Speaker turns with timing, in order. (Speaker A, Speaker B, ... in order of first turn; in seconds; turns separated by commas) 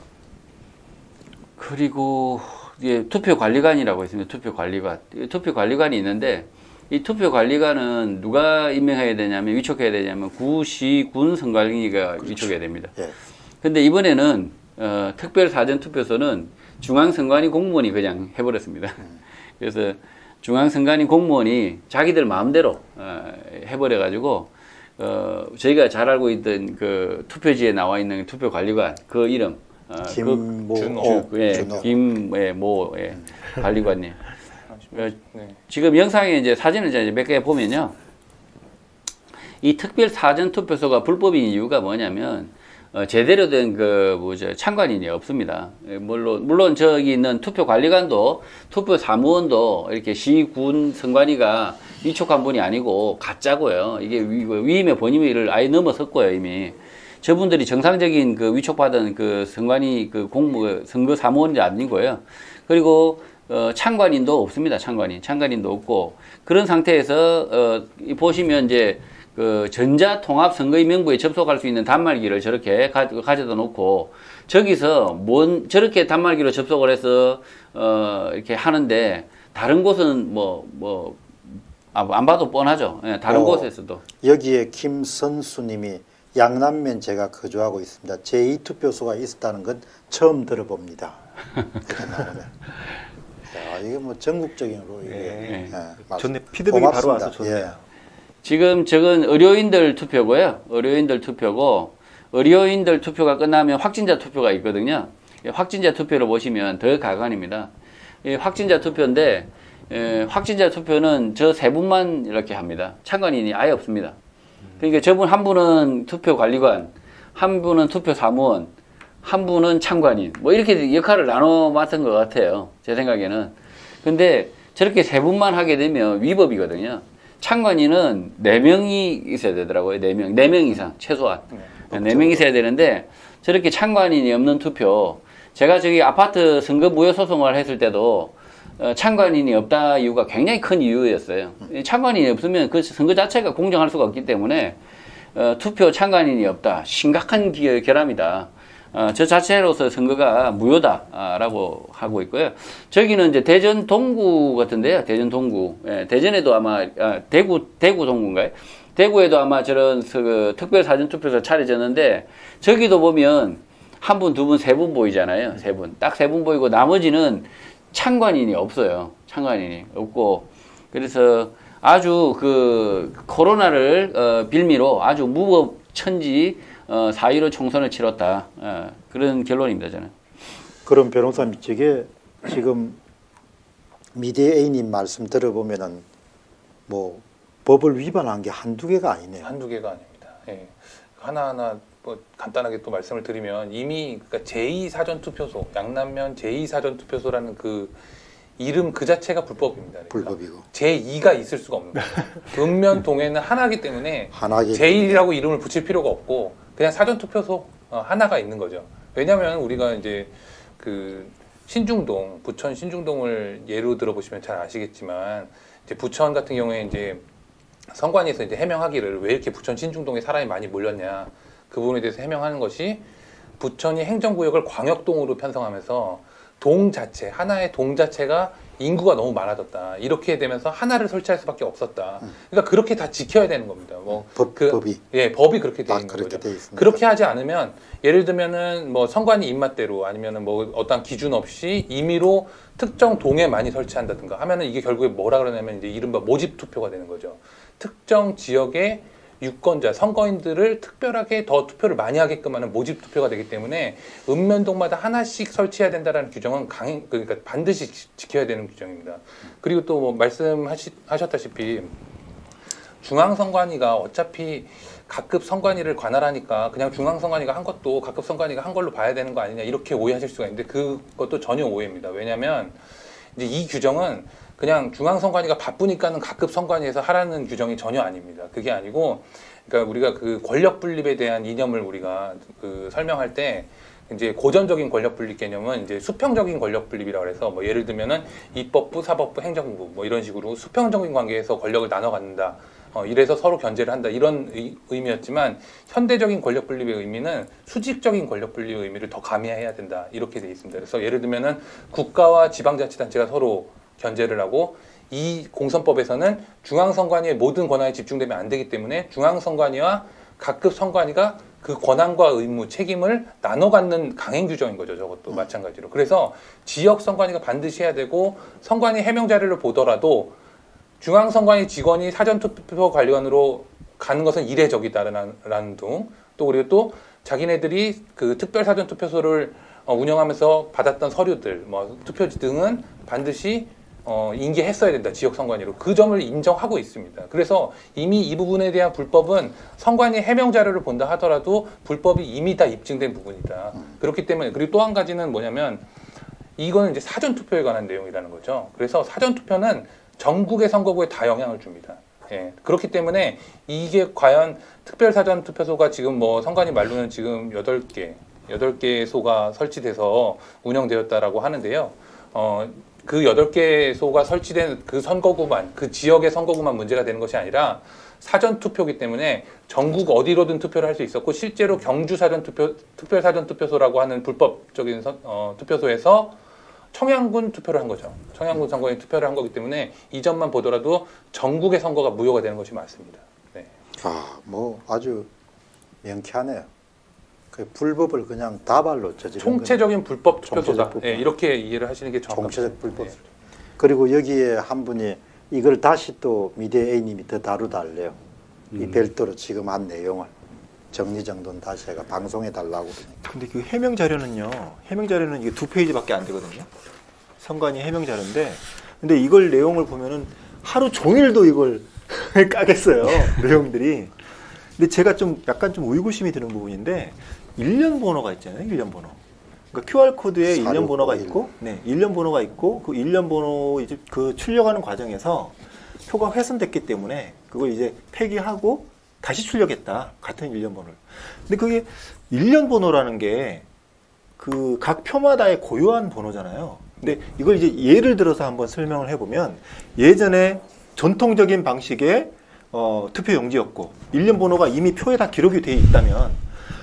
Speaker A: 1.6-12.9, Speaker B: 12.2-13.1, Speaker A: 13.6-19.0, Speaker A: 19.6-34.2, Speaker B: 30.0-31.9, Speaker C: 30.7-31.9, Speaker C: 34.7-35.6, Speaker A: 35.7-37.9, Speaker A: 39.6-81.2, Speaker A: 81.9-84.0, Speaker B: 83.3-83.7, Speaker B: 84.2-91.2, Speaker B: 91.8-92.5, Speaker B: 93.5-97.7, Speaker D: 95.0-97.8, Speaker A: 95.5-95.8, Speaker A: 98.4-107.7, Speaker A: 108.2-114.2, Speaker A: 114.8-118.7, Speaker A: 119.2-144.8, Speaker B: 131.9-132.4, Speaker A: 145.3-180.1, Speaker B: 180.8-183.0, Speaker B: 184.1-186.1, Speaker B: 186.9-189.6, Speaker C: 189.4-198.0, Speaker C: 198.6-217.2, Speaker B: 200.1-200.7, Speaker B: 204.3-205.3, Speaker C: 217.9-223.0, Speaker C: 223.6-261.9, Speaker B: 234.1-235.1, Speaker B: 235.8-237.0, Speaker C: 263.0-272.8, Speaker C: 273.3-320.3, Speaker C: 321.0-345.9, Speaker C: 346.6-376.4, Speaker C: 376.9-383.7, Speaker B: 384.0-385.3, Speaker B: 386.0-386.7, Speaker B: 387.5-389.9, Speaker C: 389.4-393.2, Speaker B: 390.4-391.3, Speaker B: 392.3-393.2, Speaker B: 393.8-398.1, Speaker B: 398.7-400.3, Speaker B: 400.9-403.2, Speaker D: 403.2-406.7, Speaker D: 407.4-414.1, Speaker D: 414.8-419.2, Speaker D: 419.7-433.6, Speaker B: 420.5-421.4, Speaker D: 434.4-446.4